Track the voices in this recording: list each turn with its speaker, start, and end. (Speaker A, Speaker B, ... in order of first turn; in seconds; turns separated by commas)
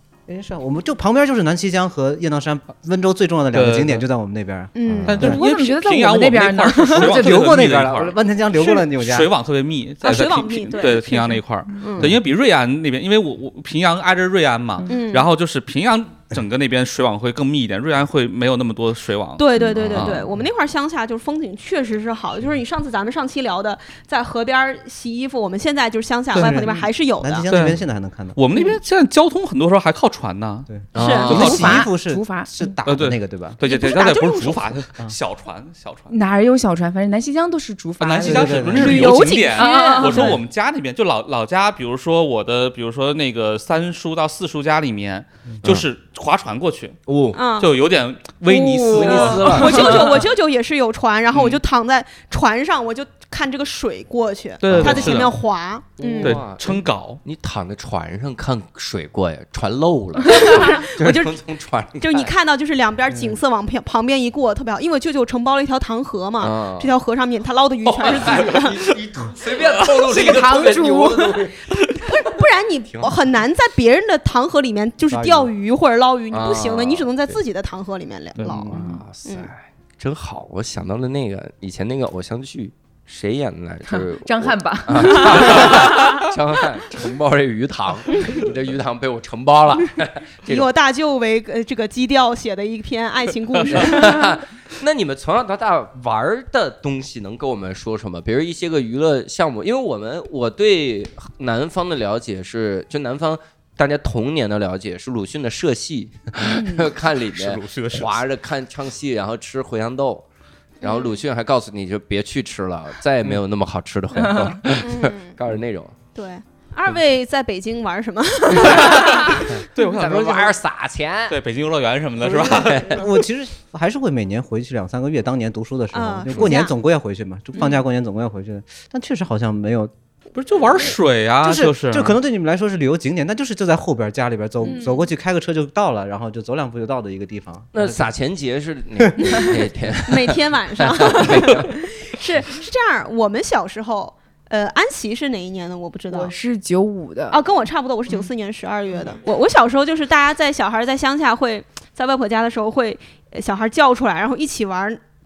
Speaker A: 0.3-5.4, Speaker B: 3.5-4.0, Speaker C: 4.7-5.2, Speaker D: 4.8-5.2, Speaker B: 5.1-8.2, Speaker E: 5.2-7.4, Speaker A: 6.9-9.3, Speaker C: 8.5-8.8, Speaker B: 9.0-19.4, Speaker C: 10.0-12.1, Speaker E: 10.9-11.3, Speaker C: 14.9-15.3, Speaker C: 19.4-27.5, Speaker D: 19.8-20.3, Speaker B: 26.3-26.6, Speaker A: 26.4-28.4, Speaker E: 26.6-26.9, Speaker B: 27.5-27.8, Speaker B: 28.3-31.8, Speaker A: 30.7-33.6, Speaker C: 30.9-31.5, Speaker D: 30.9-31.7, Speaker E: 31.3-32.7, Speaker B: 32.8-36.1, Speaker C: 33.6-34.8, Speaker E: 36.1-38.9, Speaker B: 38.0-47.0, Speaker A: 38.2-39.2, Speaker C: 38.7-40.4, Speaker E: 39.5-40.3, Speaker D: 47.1-47.4, Speaker C: 47.3-47.7, Speaker B: 47.6-50.1, Speaker E: 48.5-50.1, Speaker D: 48.9-50.1, Speaker C: 49.1-56.4, Speaker B: 54.6-55.3, Speaker D: 54.7-55.3, Speaker D: 56.0-62.3, Speaker B: 56.2-57.2, Speaker C: 60.3-61.4, Speaker C: 62.0-68.8, Speaker A: 63.1-63.4, Speaker D: 66.4-66.9, Speaker D: 67.8-71.7, Speaker E: 69.8-71.5, Speaker C: 71.9-79.5, Speaker A: 75.1-75.5, Speaker D: 76.3-77.4, Speaker B: 78.4-78.6, Speaker A: 78.5-78.8, Speaker D: 78.6-90.7, Speaker E: 83.9-86.2, Speaker C: 90.5-94.3, Speaker D: 93.7-110.2, Speaker E: 106.4-106.8, Speaker B: 107.1-108.2, Speaker C: 110.8-111.2, Speaker D: 110.8-116.0, Speaker E: 114.2-114.5, Speaker C: 114.8-115.3, Speaker C: 116.1-119.6, Speaker D: 118.5-121.4, Speaker B: 119.7-120.6, Speaker B: 121.3-123.0, Speaker D: 122.2-123.0, Speaker A: 122.9-129.9, Speaker C: 125.9-126.7, Speaker B: 130.3-132.2, Speaker A: 131.4-138.1, Speaker C: 134.6-135.1, Speaker D: 137.7-141.8, Speaker C: 140.1-146.3, Speaker E: 146.1-147.4, Speaker C: 147.3-155.0